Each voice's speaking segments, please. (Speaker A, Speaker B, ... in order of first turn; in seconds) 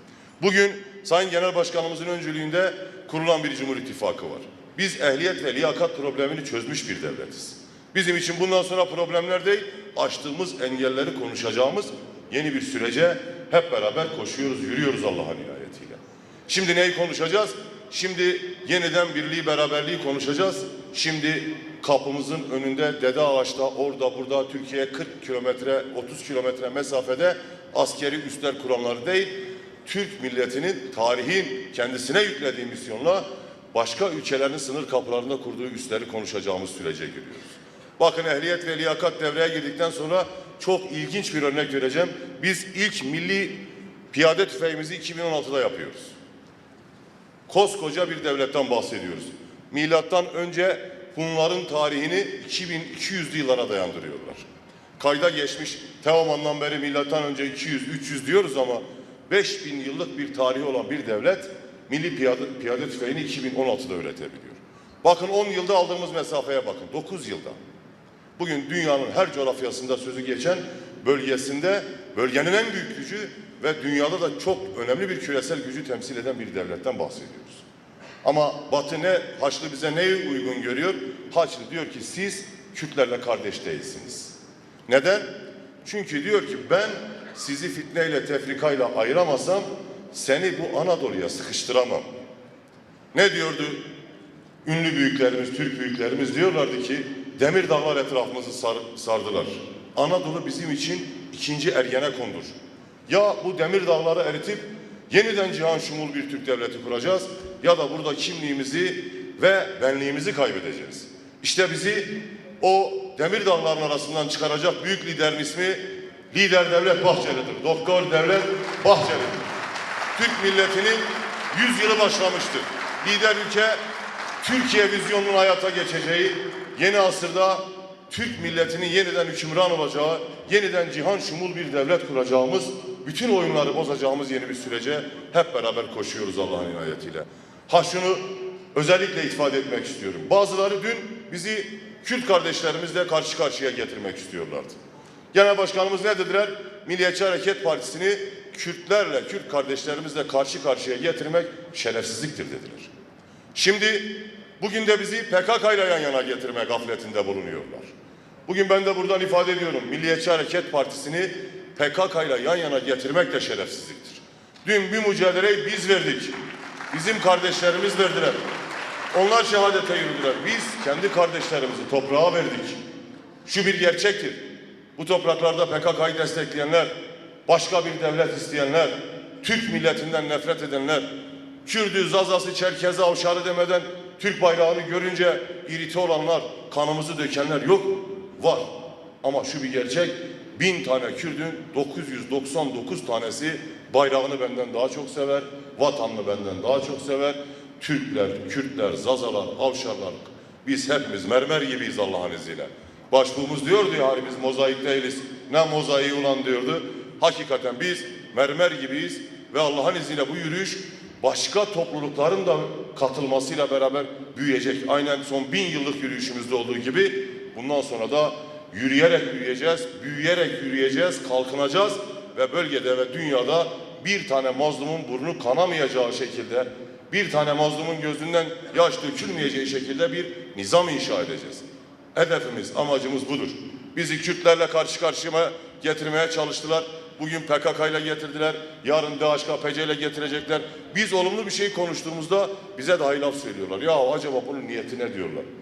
Speaker A: 0.4-43.6, 44.1-46.1, 47.5-54.4, 55.0-67.6, 68.4-77.6, 78.2-84.3, 84.9-85.3, 85.8-92.0, 93.1-93.8, 94.6-102.5, 103.1-119.4, 120.1-123.8, 124.4-144.8, 145.3-152.9, 153.5-157.9, 158.4-166.3, 166.9-168.4, 169.1-172.8, 173.4-174.4, 174.9-176.9, 177.4-181.1, 181.6-245.4